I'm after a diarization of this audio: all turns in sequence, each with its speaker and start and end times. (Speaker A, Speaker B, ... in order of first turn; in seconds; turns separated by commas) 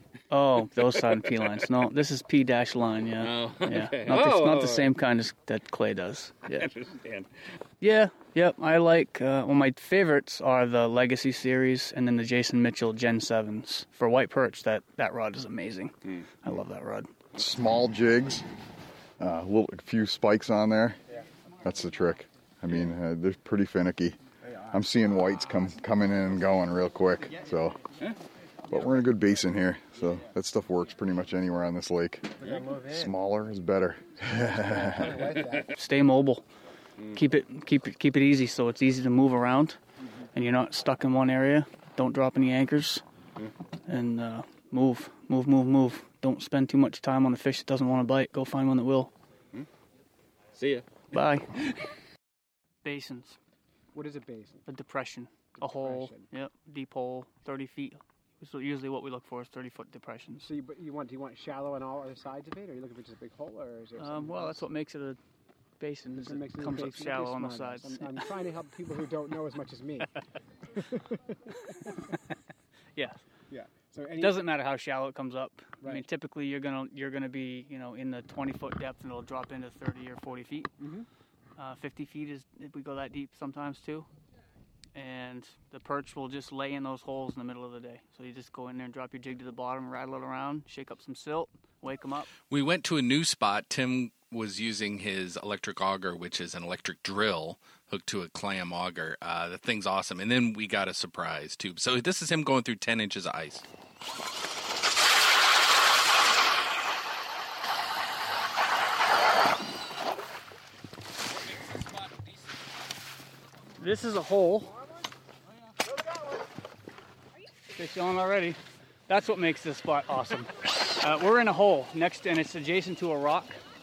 Speaker A: 0.3-6.7, Speaker B: 0.7-1.6, Speaker B: 3.2-4.9, Speaker B: 6.5-7.3, Speaker A: 7.8-15.9, Speaker A: 16.4-17.1, Speaker C: 17.3-18.4, Speaker C: 19.2-21.0, Speaker C: 21.6-24.2, Speaker C: 24.7-27.8, Speaker C: 28.7-35.3, Speaker D: 32.4-33.1, Speaker D: 34.8-35.6, Speaker A: 35.8-36.4, Speaker A: 37.1-39.8, Speaker A: 40.3-43.0, Speaker A: 43.9-49.1, Speaker B: 50.5-50.9, Speaker A: 51.1-51.5, Speaker A: 52.8-53.4, Speaker D: 53.9-54.6, Speaker A: 54.7-60.5, Speaker D: 55.6-56.2, Speaker D: 60.4-64.6, Speaker A: 64.0-65.2, Speaker A: 65.8-68.2, Speaker D: 66.1-70.1, Speaker D: 73.5-74.4, Speaker A: 74.2-80.7, Speaker D: 80.8-81.1, Speaker A: 81.6-84.1, Speaker A: 84.9-92.3, Speaker E: 92.5-103.6, Speaker A: 113.8-114.7, Speaker A: 117.7-123.6